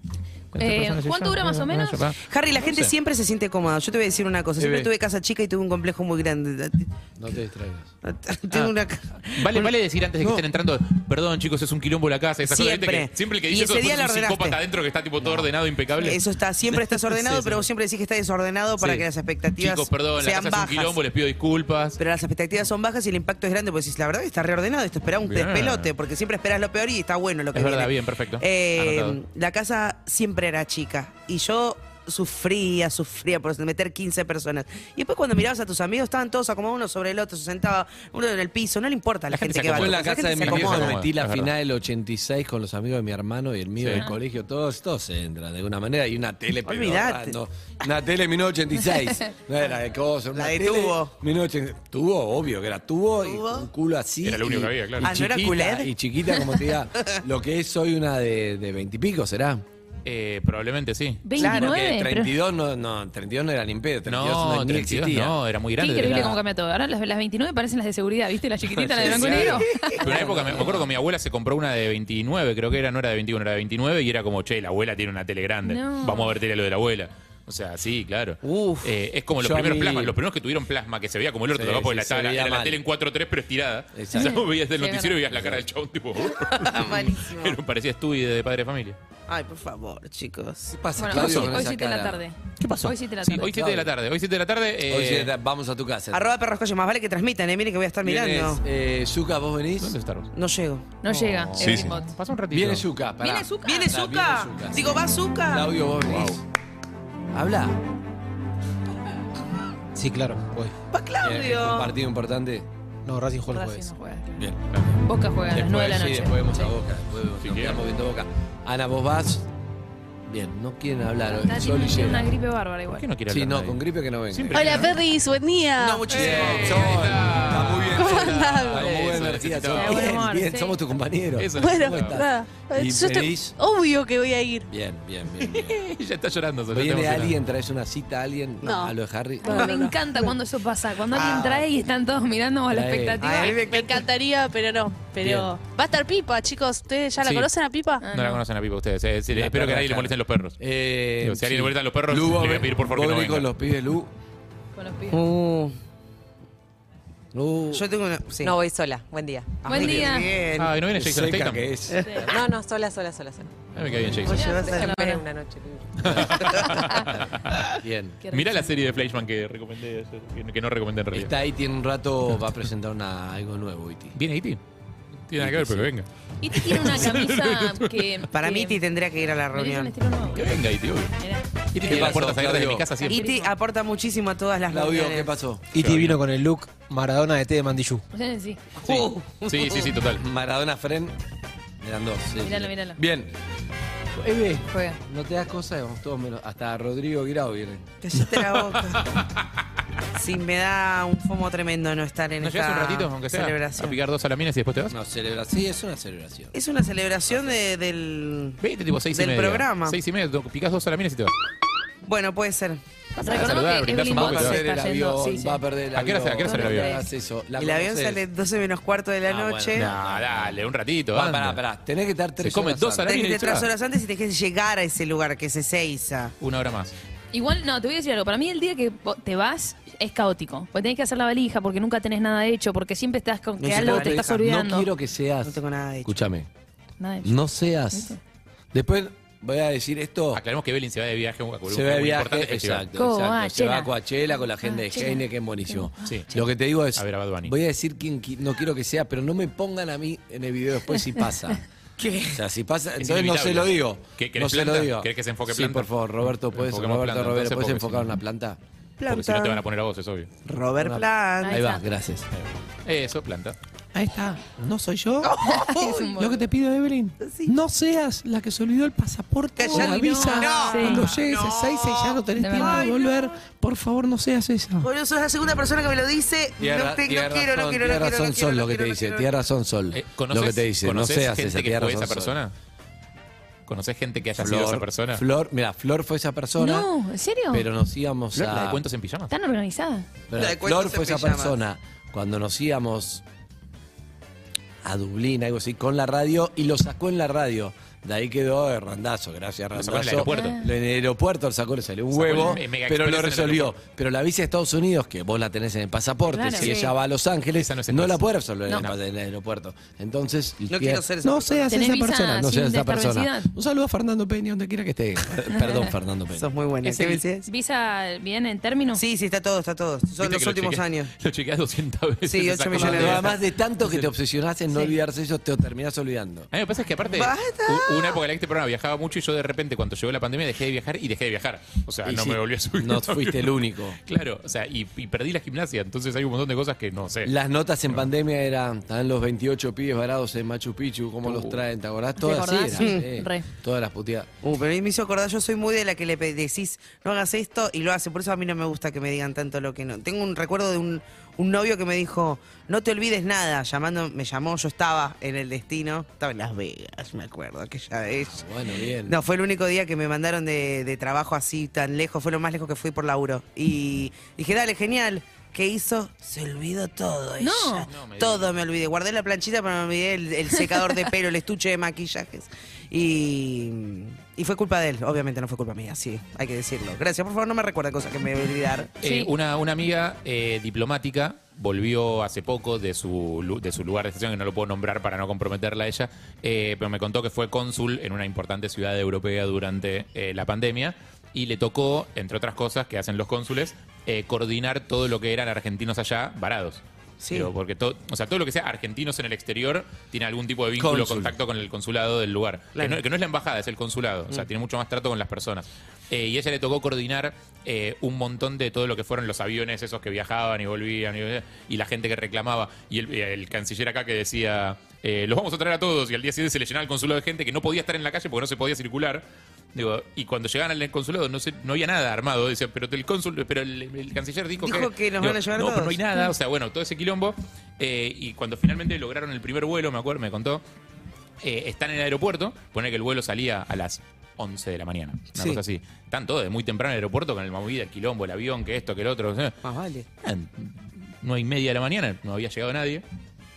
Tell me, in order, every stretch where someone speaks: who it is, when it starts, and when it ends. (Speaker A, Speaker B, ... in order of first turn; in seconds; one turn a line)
Speaker A: 0.5-2.9
Speaker B: 0.6-2.1
Speaker C: 2.2-6.9
Speaker D: 4.6-4.9
Speaker D: 7.2-7.9
Speaker C: 8.0-9.7
Speaker A: 9.3-16.2
Speaker D: 10.2-10.4
Speaker C: 12.4-14.6
Speaker C: 16.0-21.0
Speaker A: 17.3-17.5
Speaker A: 18.8-19.1
Speaker A: 19.6-22.0
Speaker C: 22.0-41.0
Speaker A: 25.2-25.9
Speaker A: 27.5-29.2
Speaker A: 39.3-41.5
Speaker D: 39.7-59.6
Speaker A: 43.8-44.1
Speaker C: 46.6-47.4
Speaker C: 50.3-51.1
Speaker C: 53.2-53.7
Speaker A: 54.2-55.1
Speaker C: 55.0-55.9
Speaker A: 60.0-61.2
Speaker B: 61.2-62.3
Speaker D: 61.4-65.4
Speaker C: 61.4-61.8
Speaker A: 64.0-66.4
Speaker B: 65.8-69.9
Speaker D: 66.0-66.4
Speaker D: 68.6-70.9
Speaker A: 69.0-89.0
Speaker C: 69.7-70.0
Speaker B: 75.7-76.3
Speaker C: 78.4-78.8
Speaker D: 79.4-80.2
Speaker D: 81.5-82.8
Speaker D: 83.9-84.5
Speaker B: 84.1-85.2
Speaker D: 85.3-85.6
Speaker C: 86.5-87.6
Speaker C: 89.3-90.7
Speaker D: 90.7-92.2
Speaker B: 91.0-93.5
Speaker A: 91.1-91.5
Speaker A: 92.6-95.3
Speaker D: 93.3-93.9
Speaker D: 94.8-96.3
Speaker C: 96.1-98.6
Speaker D: 98.0-99.9
Speaker A: 99.8-100.3
Speaker C: 100.3-100.8
Speaker B: 101.0-102.1
Speaker A: 101.1-102.8
Speaker D: 101.6-101.9
Speaker D: 102.5-106.4
Speaker B: 103.2-103.9
Speaker C: 103.6-105.7
Speaker A: 106.1-106.4
Speaker D: 107.3-107.8
Speaker E: 109.9-110.7
Speaker C: 110.9-111.9
Speaker D: 111.2-112.7
Speaker E: 113.0-113.9
Speaker B: 113.5-114.5
Speaker B: 115.0-116.7
Speaker D: 115.5-119.5
Speaker A: 117.4-117.8
Speaker D: 120.3-122.3
Speaker B: 121.2-123.0
Speaker A: 122.9-125.0
Speaker D: 123.3-124.9
Speaker F: 124.5-126.1
Speaker D: 125.8-133.5
Speaker A: 126.1-130.2
Speaker C: 126.2-126.6
Speaker F: 128.0-128.8
Speaker B: 129.8-130.8
Speaker A: 131.4-132.2
Speaker F: 131.6-134.7
Speaker D: 134.7-135.8
Speaker A: 135.5-137.3
Speaker D: 136.7-139.8
Speaker F: 138.6-138.9
Speaker B: 139.4-143.6
Speaker F: 139.4-140.2
Speaker C: 141.1-141.7
Speaker D: 142.7-143.4
Speaker C: 143.2-144.0
Speaker F: 143.5-148.0
Speaker D: 145.2-145.5
Speaker A: 147.2-147.5
Speaker B: 148.0-148.4
Speaker A: 148.1-150.6
Speaker D: 149.3-154.1
Speaker A: 151.2-153.5
Speaker B: 154.8-155.2
Speaker C: 155.1-155.7
Speaker D: 157.3-157.8
Speaker C: 157.7-158.5
Speaker G: 158.4-159.7
Speaker C: 159.6-160.7
Speaker B: 159.6-160.3
Speaker D: 159.7-160.0
Speaker A: 160.6-161.7
Speaker D: 160.9-162.3
Speaker G: 162.2-163.5
Speaker A: 163.7-164.4
Speaker D: 163.8-164.2
Speaker C: 164.2-165.2
Speaker B: 164.3-165.2
Speaker G: 164.7-166.0
Speaker A: 166.0-167.6
Speaker D: 166.0-168.2
Speaker B: 166.6-167.1
Speaker B: 168.2-168.7
Speaker A: 168.3-171.3
Speaker D: 171.1-174.2
Speaker A: 174.1-174.6
Speaker A: 175.3-178.1
Speaker D: 175.4-175.9
Speaker B: 176.4-178.8
Speaker C: 178.3-179.9
Speaker B: 179.5-180.6
Speaker A: 180.3-181.1
Speaker B: 181.2-181.4
Speaker A: 181.7-183.2
Speaker D: 181.8-182.9
Speaker B: 183.0-183.5
Speaker C: 183.1-185.3
Speaker D: 184.7-185.8
Speaker E: 185.7-188.0
Speaker A: 185.8-186.2
Speaker B: 188.1-188.6
Speaker C: 188.8-189.9
Speaker A: 188.8-190.2
Speaker D: 190.2-191.2
Speaker D: 191.8-193.3
Speaker B: 192.4-193.0
Speaker D: 194.2-197.9
Speaker B: 194.7-195.0
Speaker C: 198.0-199.1
Speaker C: 200.1-204.0
Speaker A: 202.4-204.9
Speaker D: 204.9-206.5
Speaker C: 206.5-208.6
Speaker D: 207.3-207.6
Speaker A: 208.6-211.3
Speaker C: 209.1-210.0
Speaker C: 212.0-212.8
Speaker A: 213.2-214.6
Speaker B: 213.2-215.6
Speaker D: 214.0-218.2
Speaker A: 215.9-216.9
Speaker B: 216.4-217.0
Speaker C: 217.6-219.9
Speaker D: 219.2-223.1
Speaker A: 219.7-221.6
Speaker A: 222.4-223.7
Speaker C: 223.1-226.3
Speaker A: 226.4-226.9
Speaker B: 227.3-234.9
Speaker C: 233.6-234.4
Speaker D: 233.7-236.5
Speaker C: 235.4-236.2
Speaker B: 237.0-237.3
Speaker D: 237.2-238.2
Speaker B: 237.9-238.2
Speaker D: 238.7-240.4
Speaker A: 240.3-242.8
Speaker D: 241.7-251.6
Speaker B: 242.9-243.9
Speaker B: 244.6-245.9
Speaker A: 246.0-246.3
Speaker A: 246.9-247.5
Speaker C: 252.0-252.4
Speaker D: 252.3-258.6
Speaker A: 253.0-258.1
Speaker C: 259.0-259.6
Speaker A: 259.1-260.3
Speaker C: 260.4-261.6
Speaker D: 260.8-262.2
Speaker B: 261.4-261.8
Speaker A: 262.3-263.6
Speaker D: 263.9-274.9
Speaker C: 265.2-266.2
Speaker B: 265.4-266.4
Speaker C: 267.2-267.5
Speaker C: 269.6-273.1
Speaker B: 269.7-271.1
Speaker B: 272.4-272.9
Speaker C: 274.8-279.3
Speaker D: 276.6-282.4
Speaker A: 279.9-282.5
Speaker A: 283.7-285.2
Speaker D: 284.4-286.9
Speaker B: 286.6-287.7
Speaker D: 287.5-288.8
Speaker A: 288.3-289.3
Speaker B: 289.3-290.1
Speaker D: 290.3-293.2
Speaker C: 290.3-291.6
Speaker D: 294.8-316.5
Speaker A: 299.7-300.6
Speaker B: 300.3-300.7
Speaker A: 302.1-303.8
Speaker B: 306.3-306.7
Speaker C: 306.6-306.9
Speaker A: 307.5-308.9
Speaker C: 310.7-311.7
Speaker B: 311.7-313.5
Speaker C: 316.3-317.5
Speaker A: 316.8-317.2
Speaker B: 317.4-319.0
Speaker C: 318.9-321.1
Speaker A: 320.2-323.4
Speaker C: 322.2-323.3
Speaker D: 322.7-326.5
Speaker A: 326.5-337.3
Speaker C: 327.1-328.2
Speaker D: 332.0-334.0
Speaker D: 337.2-344.3
Speaker A: 341.2-341.6
Speaker B: 342.2-343.5
Speaker C: 342.8-343.0
Speaker C: 344.4-358.4
Speaker D: 358.2-359.2
Speaker C: 359.0-378.9
Speaker B: 367.4-367.9
Speaker A: 367.9-368.6
Speaker B: 379.0-379.3
Speaker A: 379.0-419.2
Speaker C: 397.2-397.5
Speaker D: 400.8-401.4
Speaker A: 419.7-430.6
Speaker C: 424.6-426.0
Speaker A: 431.4-439.6
Speaker C: 439.6-440.1
Speaker A: 440.2-443.0